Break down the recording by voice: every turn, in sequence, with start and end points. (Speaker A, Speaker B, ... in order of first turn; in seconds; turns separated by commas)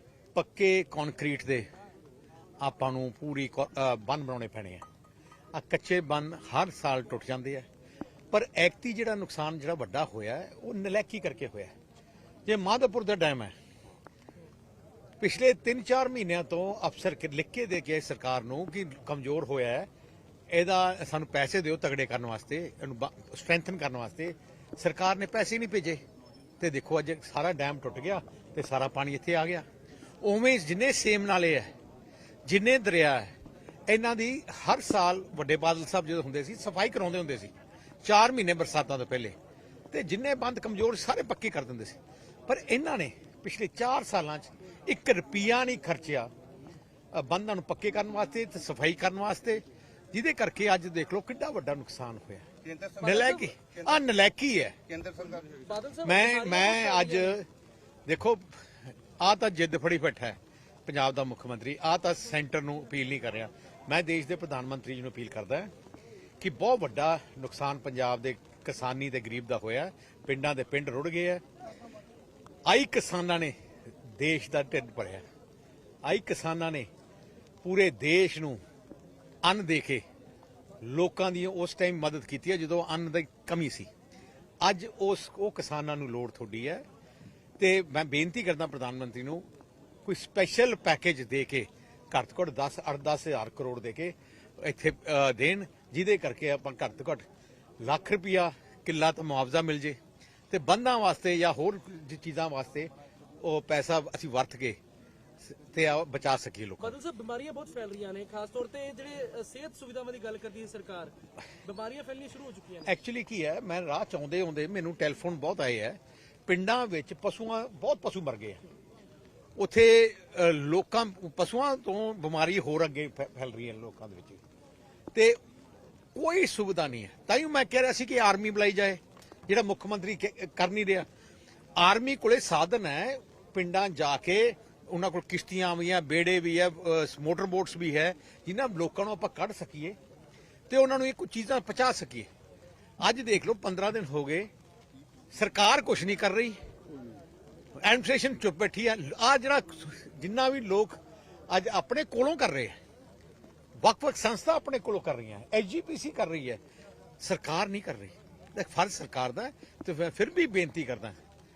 Speaker A: 0.3-1.7, Speaker A: 2.6-4.8, Speaker A: 5.5-7.7, Speaker A: 8.3-11.7, Speaker A: 12.4-13.5, Speaker A: 15.2-19.9, Speaker A: 20.5-26.0, Speaker A: 26.6-29.6, Speaker A: 30.2-31.7, Speaker A: 32.4-33.3, Speaker A: 33.9-37.5, Speaker A: 38.0-39.4, Speaker A: 39.9-46.3, Speaker A: 47.1-52.5, Speaker B: 52.6-54.1, Speaker A: 53.0-54.8, Speaker C: 53.1-53.4, Speaker B: 54.9-55.7, Speaker C: 55.6-57.4, Speaker A: 56.0-57.5, Speaker A: 58.1-58.6, Speaker A: 59.2-65.7, Speaker A: 66.4-71.4, Speaker A: 72.7-73.5, Speaker A: 74.1-75.2, Speaker A: 76.0-76.9, Speaker A: 77.6-78.6, Speaker A: 79.4-80.0, Speaker A: 80.8-83.9, Speaker A: 84.6-86.8, Speaker A: 87.6-89.4, Speaker A: 90.0-97.2, Speaker A: 97.8-100.0, Speaker A: 100.5-102.9, Speaker A: 103.4-104.8, Speaker A: 105.4-107.0, Speaker C: 106.8-113.0, Speaker A: 112.8-118.6, Speaker A: 119.6-124.4, Speaker A: 126.1-131.1, Speaker A: 131.8-140.0, Speaker A: 140.7-142.3, Speaker A: 143.0-144.5, Speaker A: 145.3-146.6, Speaker A: 147.8-151.0, Speaker A: 151.5-152.8, Speaker A: 153.8-156.6, Speaker A: 157.2-161.2